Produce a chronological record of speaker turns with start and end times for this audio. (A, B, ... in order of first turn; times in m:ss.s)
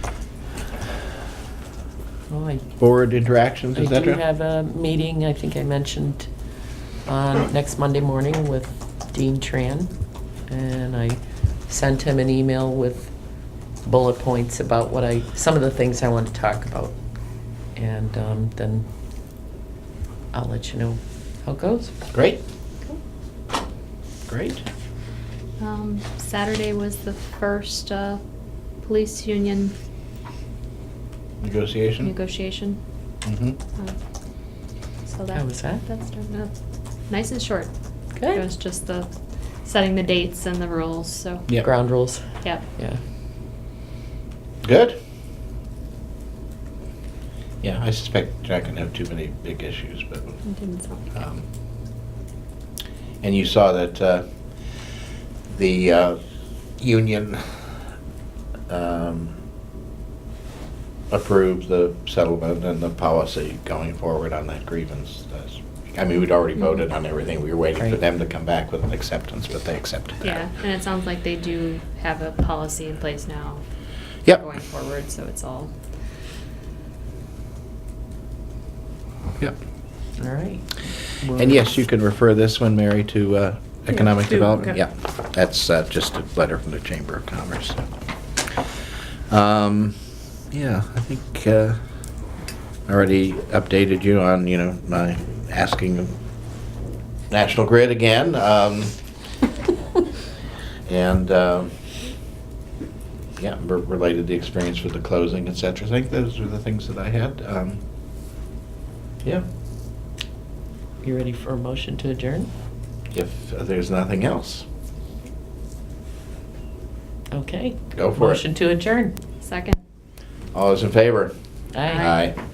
0:02.3-0:02.6 A
0:02.8-0:04.2 B
0:03.7-0:06.3 A
0:07.0-0:09.9 A
0:10.5-0:13.1 A
0:13.8-0:16.9 A
0:17.8-0:18.8 A
0:20.3-0:21.9 A
0:22.1-0:22.4 B
0:24.3-0:24.6 B
0:25.6-0:28.2 C
0:28.8-0:29.7 C
0:31.4-0:32.1 B
0:32.0-0:32.8 C
0:33.2-0:33.6 B
0:35.1-0:36.5 C
0:35.3-0:35.8 A
0:37.1-0:37.7 C
0:38.2-0:38.4 A
0:38.3-0:39.1 C
0:39.6-0:41.5 C
0:41.6-0:43.0 A
0:44.6-0:45.0 B
0:47.6-0:50.4 B
0:50.4-0:51.1 C
0:51.1-0:51.4 B
0:53.2-0:54.2 B
0:55.5-0:56.2 B
0:56.8-0:57.5 B
0:58.7-0:59.4 B
1:01.1-1:10.4 B
1:10.2-1:13.6 C
1:14.3-1:15.7 C
1:20.2-1:21.7 A
1:21.3-1:27.8 B
1:29.3-1:30.0 B
1:30.5-1:31.8 B
1:32.9-1:36.2 B
1:37.3-1:39.0 B
1:40.9-1:41.7 B
1:43.4-1:47.8 B
1:51.0-1:52.5 A
1:53.1-1:54.6 B
1:57.3-1:59.2 A
1:57.9-1:58.4 B
1:59.4-1:59.8 C
2:00.5-2:01.3 B
2:01.7-2:02.0 A
2:01.8-2:02.2 C
2:01.9-2:02.3 B